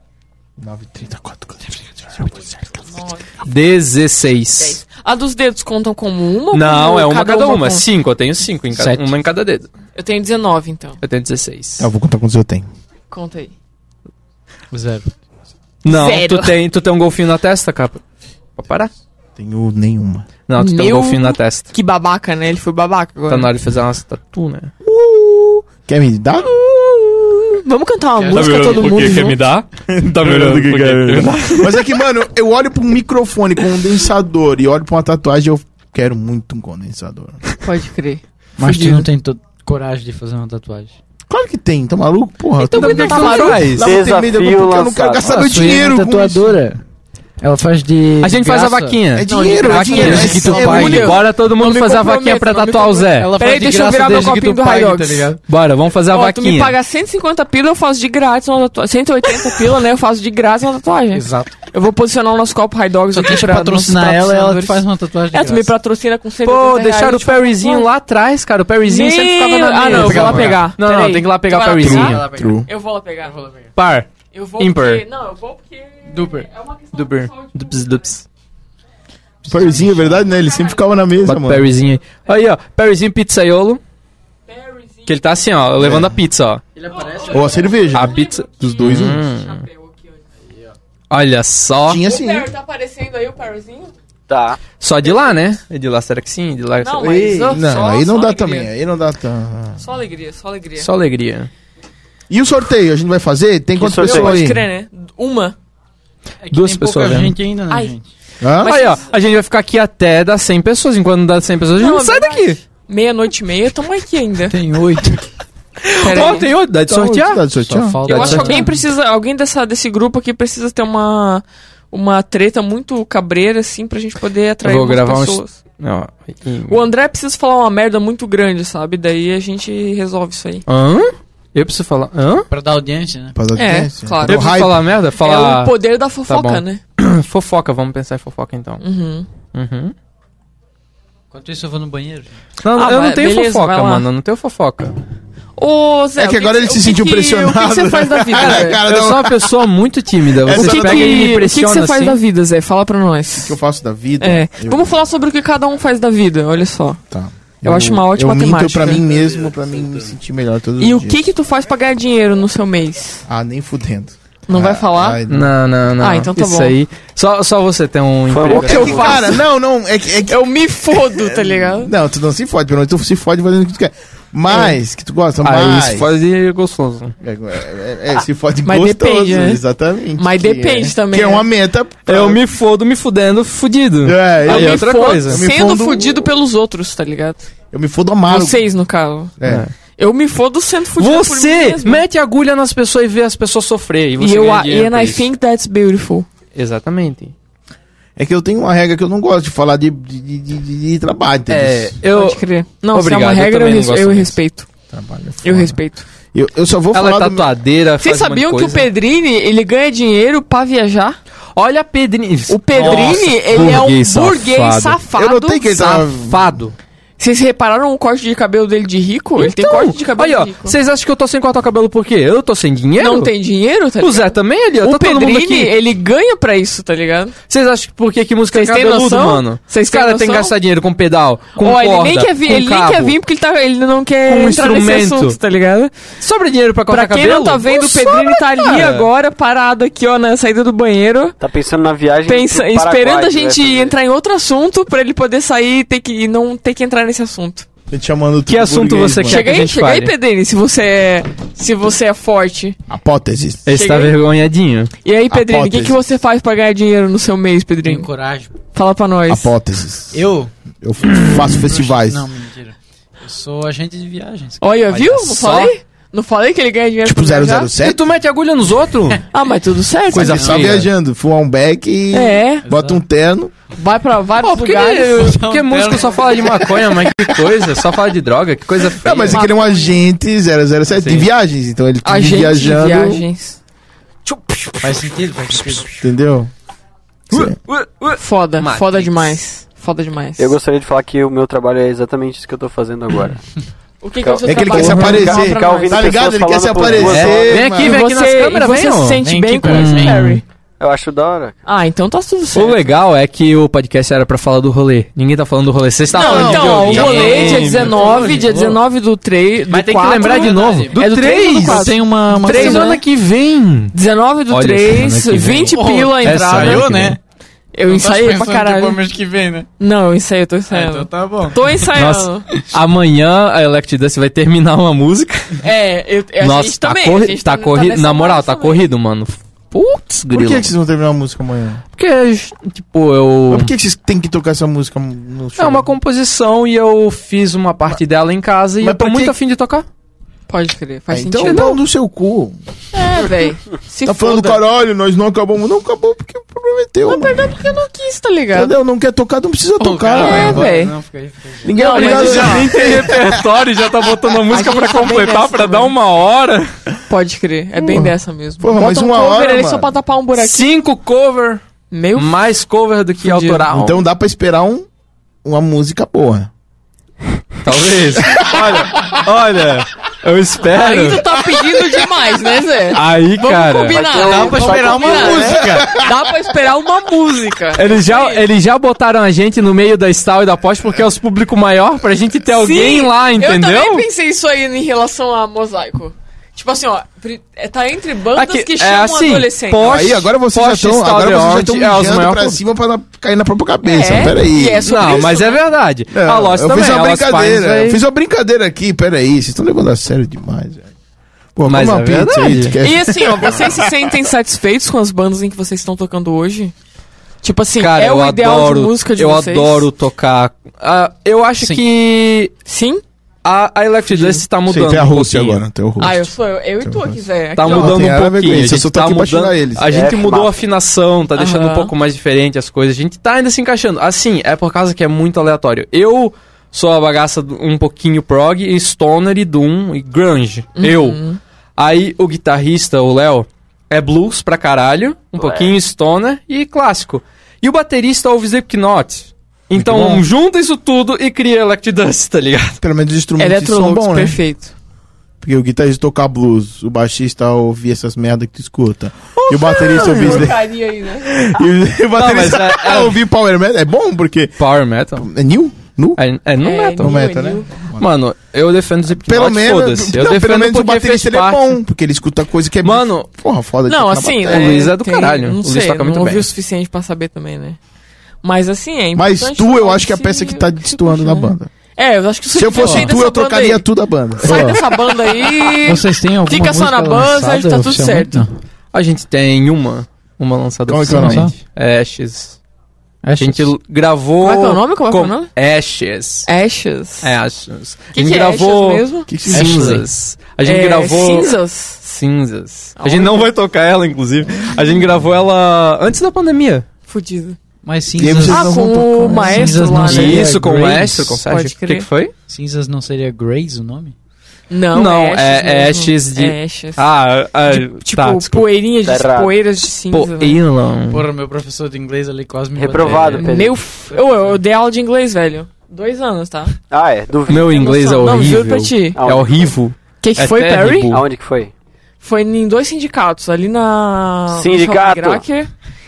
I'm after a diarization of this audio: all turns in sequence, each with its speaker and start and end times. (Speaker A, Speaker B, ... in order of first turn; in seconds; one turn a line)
Speaker A: 0.6-2.9
Speaker B: 2.8-3.5
Speaker C: 3.4-4.8
Speaker B: 4.5-7.8
Speaker C: 6.5-9.7
Speaker D: 8.7-9.2
Speaker B: 9.9-11.0
Speaker C: 11.0-11.9
Speaker A: 11.8-12.7
Speaker B: 13.1-13.5
Speaker D: 14.7-15.1
Speaker C: 15.8-18.0
Speaker B: 15.8-16.6
Speaker C: 18.6-18.9
Speaker A: 19.4-20.3
Speaker C: 20.5-21.7
Speaker B: 20.5-23.5
Speaker C: 23.3-24.7
Speaker A: 24.8-26.5
Speaker B: 26.4-29.4
Speaker D: 28.2-29.0
Speaker C: 28.3-31.8
Speaker A: 30.1-37.5
Speaker B: 37.6-39.1
Speaker D: 38.6-40.9
Speaker A: 41.3-46.6
Speaker C: 42.6-43.9
Speaker B: 42.6-43.7
Speaker E: 43.8-45.4
Speaker D: 45.2-46.8
Speaker D: 47.4-51.2
Speaker C: 48.2-53.3
Speaker A: 49.1-51.1
Speaker B: 49.4-55.3
Speaker D: 53.1-55.4
Speaker C: 53.9-54.2
Speaker C: 55.5-56.8
Speaker B: 56.1-67.9
Speaker D: 61.1-61.6
Speaker D: 63.1-65.7
Speaker C: 66.4-72.2
Speaker B: 68.8-73.3
Speaker D: 69.9-70.8
Speaker D: 71.8-72.6
Speaker A: 72.2-72.7
Speaker D: 73.2-73.7
Speaker C: 73.8-75.0
Speaker B: 74.2-78.2
Speaker D: 76.1-76.5
Speaker C: 76.9-78.2
Speaker A: 79.5-81.7
Speaker B: 79.5-81.3
Speaker D: 79.6-80.1
Speaker C: 81.2-83.8
Speaker B: 82.0-82.4
Speaker B: 84.5-85.3
Speaker C: 85.1-86.6
Speaker A: 85.8-86.2
Speaker D: 86.7-87.7
Speaker B: 86.8-90.2
Speaker A: 87.3-89.2
Speaker C: 87.9-89.6
Speaker C: 91.1-92.0
Speaker A: 91.9-92.5
Speaker B: 92.0-93.9
Speaker E: 94.3-94.6
Speaker C: 94.8-97.4
Speaker B: 95.0-95.4
Speaker B: 96.8-98.7
Speaker A: 97.0-99.8
Speaker B: 99.8-100.9
Speaker C: 100.8-101.5
Speaker A: 102.3-104.6
Speaker E: 103.8-104.4
Speaker B: 103.8-105.5
Speaker D: 106.4-108.1
Speaker C: 106.5-107.4
Speaker B: 107.7-107.9
Speaker A: 108.4-108.8
Speaker B: 108.6-109.2
Speaker C: 108.6-112.6
Speaker B: 111.7-114.6
Speaker D: 114.5-115.2
Speaker C: 115.8-117.5
Speaker B: 116.0-116.6
Speaker A: 116.9-118.1
Speaker D: 117.5-118.7
Speaker C: 118.0-118.7
Speaker B: 118.1-125.6
Speaker C: 124.6-126.8
Speaker B: 126.7-130.6
Speaker C: 130.7-132.5
Speaker D: 132.5-133.4
Speaker A: 133.3-134.8
Speaker B: 133.5-134.6
Speaker C: 134.2-135.7
Speaker B: 135.1-136.8
Speaker C: 136.3-138.8
Speaker B: 138.8-139.3
Speaker C: 139.5-139.9
Speaker D: 141.3-142.3
Speaker C: 142.6-144.9
Speaker B: 142.7-144.1
Speaker B: 145.6-148.8
Speaker A: 146.2-149.7
Speaker C: 148.8-152.2
Speaker A: 150.4-151.3
Speaker B: 150.5-153.6
Speaker A: 153.4-155.0
Speaker B: 154.2-157.0
Speaker A: 157.1-161.2
Speaker B: 157.6-159.0
Speaker B: 160.8-163.2
Speaker A: 163.2-165.5
Speaker B: 164.5-165.2
Speaker C: 165.3-169.0
Speaker B: 166.0-166.8
Speaker E: 168.3-169.2
Speaker A: 168.5-176.1
Speaker B: 168.5-169.4
Speaker B: 170.3-171.9
Speaker B: 174.5-174.8
Speaker C: 175.4-177.1
Speaker A: 177.2-182.4
Speaker B: 178.6-179.6
Speaker B: 180.2-181.5
Speaker C: 182.1-185.4
Speaker A: 184.0-186.3
Speaker B: 184.4-187.5
Speaker A: 187.7-188.6
Speaker B: 188.3-192.0
Speaker A: 189.4-189.7
Speaker C: 189.4-189.8
Speaker C: 191.0-195.3
Speaker B: 194.2-196.3
Speaker C: 196.5-197.3
Speaker A: 198.2-202.0
Speaker C: 201.5-204.3
Speaker B: 202.1-204.7
Speaker A: 204.9-205.8
Speaker B: 205.4-206.1
Speaker A: 206.3-207.5
Speaker C: 206.9-208.9
Speaker B: 208.0-211.2
Speaker C: 211.6-215.0
Speaker B: 212.5-215.8
Speaker A: 215.1-216.7
Speaker C: 215.8-216.7
Speaker B: 217.2-220.8
Speaker C: 219.4-223.3
Speaker B: 223.0-227.3
Speaker C: 224.0-225.7
Speaker C: 227.5-233.1
Speaker B: 228.5-230.5
Speaker B: 231.5-236.0
Speaker C: 234.2-235.4
Speaker C: 236.2-239.1
Speaker B: 236.9-241.3
Speaker E: 241.4-243.9
Speaker B: 242.2-247.7
Speaker A: 247.9-249.6
Speaker C: 248.5-250.1
Speaker B: 249.2-252.8
Speaker A: 252.9-253.7
Speaker C: 253.7-254.9
Speaker B: 253.7-254.2
Speaker B: 255.0-258.1
Speaker A: 255.3-256.0
Speaker D: 257.8-258.6
Speaker B: 258.7-259.5
Speaker A: 259.3-260.2
Speaker D: 260.1-260.5
Speaker A: 260.8-262.3
Speaker D: 261.5-264.8
Speaker B: 264.6-267.8
Speaker C: 264.9-265.7
Speaker A: 267.0-268.1
Speaker C: 267.8-269.2
Speaker B: 269.3-270.6
Speaker A: 270.1-273.5
Speaker C: 270.1-270.9
Speaker D: 270.2-270.8
Speaker B: 272.1-272.6
Speaker D: 272.7-273.0
Speaker B: 273.7-275.4
Speaker C: 274.4-279.4
Speaker D: 275.2-276.5
Speaker A: 279.0-283.2
Speaker B: 279.3-280.0
Speaker C: 280.9-281.3
Speaker B: 282.0-283.6
Speaker D: 284.8-285.9
Speaker A: 286.0-286.5
Speaker C: 287.4-287.8
Speaker B: 288.0-290.5
Speaker C: 288.6-289.4
Speaker E: 290.4-293.4
Speaker B: 294.0-296.3
Speaker E: 294.2-297.6
Speaker A: 294.4-298.0
Speaker C: 297.0-300.4
Speaker B: 297.7-300.4
Speaker D: 299.2-300.3
Speaker E: 300.8-301.6
Speaker B: 301.6-302.9
Speaker C: 302.5-308.6
Speaker B: 306.1-313.0
Speaker A: 306.2-307.7
Speaker D: 307.6-308.8
Speaker C: 309.7-313.9
Speaker D: 310.1-313.0
Speaker B: 313.9-317.1
Speaker C: 314.5-317.1
Speaker D: 315.7-317.2
Speaker B: 317.7-319.0
Speaker D: 317.8-319.7
Speaker B: 319.8-322.5
Speaker D: 320.7-321.9
Speaker C: 321.9-325.5
Speaker B: 325.6-328.9
Speaker C: 326.4-330.7
Speaker A: 330.3-331.8
Speaker C: 331.9-333.7
Speaker A: 333.5-335.9
Speaker C: 335.6-339.9
Speaker A: 338.8-339.3
Speaker B: 340.5-341.8
Speaker A: 341.1-342.6
Speaker B: 342.9-344.6
Speaker A: 344.1-347.5
Speaker B: 347.1-348.7
Speaker A: 348.5-350.7
Speaker D: 349.8-352.0
Speaker B: 350.1-350.9
Speaker A: 351.6-353.4
Speaker B: 351.7-352.8
Speaker C: 351.9-356.7
Speaker B: 354.4-355.9
Speaker B: 357.1-360.7
Speaker A: 357.8-359.9
Speaker C: 360.4-361.6
Speaker B: 361.9-362.5
Speaker C: 362.1-364.0
Speaker B: 363.2-363.7
Speaker A: 363.7-364.9
Speaker A: 365.4-366.5
Speaker C: 367.6-371.2
Speaker A: 368.1-369.1
Speaker B: 370.6-378.4
Speaker C: 372.9-374.1
Speaker E: 373.9-375.6
Speaker D: 374.2-376.0
Speaker A: 375.5-376.1
Speaker C: 377.7-384.0
Speaker B: 382.5-390.3
Speaker C: 388.3-392.6
Speaker A: 389.9-395.2
Speaker B: 393.8-395.6
Speaker C: 394.8-398.0
Speaker A: 396.1-400.9
Speaker A: 401.6-404.1
Speaker C: 401.6-402.7
Speaker B: 402.7-406.7
Speaker B: 407.4-409.9
Speaker C: 407.8-412.6
Speaker B: 412.6-413.0
Speaker C: 413.4-415.6
Speaker B: 414.1-414.4
Speaker A: 414.7-416.3
Speaker B: 416.0-418.2
Speaker A: 416.8-419.9
Speaker C: 417.6-431.2
Speaker E: 419.9-420.6
Speaker B: 421.3-421.9
Speaker B: 430.7-431.4
Speaker C: 431.8-442.8
Speaker A: 439.7-440.2
Speaker A: 442.8-444.4
Speaker B: 443.4-444.7
Speaker A: 445.4-450.6
Speaker C: 449.4-450.4
Speaker B: 449.5-451.3
Speaker A: 451.2-454.6
Speaker C: 452.1-453.2
Speaker C: 454.6-455.3
Speaker A: 455.2-456.2
Speaker C: 456.2-457.1
Speaker B: 456.6-457.8
Speaker A: 457.0-458.0
Speaker C: 458.0-461.8
Speaker A: 459.1-464.9
Speaker C: 462.8-463.3
Speaker B: 463.9-467.8
Speaker C: 464.5-466.4
Speaker B: 468.4-473.9
Speaker A: 469.1-471.7
Speaker A: 472.5-474.9
Speaker D: 472.8-473.1
Speaker B: 474.4-478.5
Speaker D: 474.4-474.8
Speaker D: 475.8-478.5
Speaker C: 478.9-482.6
Speaker A: 480.9-481.5
Speaker D: 481.0-481.6
Speaker D: 483.2-483.8
Speaker C: 483.4-486.5
Speaker B: 484.4-485.5
Speaker B: 486.4-487.3
Speaker C: 487.2-491.5
Speaker B: 488.1-489.4
Speaker A: 489.3-490.0
Speaker D: 489.5-490.1
Speaker B: 490.6-492.0
Speaker C: 492.0-496.9
Speaker B: 492.9-493.6
Speaker B: 497.1-497.6
Speaker D: 497.8-501.2
Speaker A: 498.2-500.2
Speaker B: 498.4-500.5
Speaker C: 500.0-502.3
Speaker B: 501.3-502.1
Speaker D: 502.5-504.1
Speaker B: 504.7-507.1
Speaker C: 504.9-508.7
Speaker B: 507.6-510.6
Speaker E: 509.0-509.6
Speaker C: 510.0-511.2
Speaker D: 511.1-513.6
Speaker E: 512.7-513.8
Speaker C: 513.0-513.4
Speaker B: 513.3-516.7
Speaker D: 514.1-514.6
Speaker E: 516.9-517.9
Speaker C: 517.5-521.2
Speaker B: 517.7-519.2
Speaker E: 519.1-519.8
Speaker B: 520.2-521.2
Speaker E: 521.1-521.7
Speaker B: 522.2-525.7
Speaker E: 524.5-525.4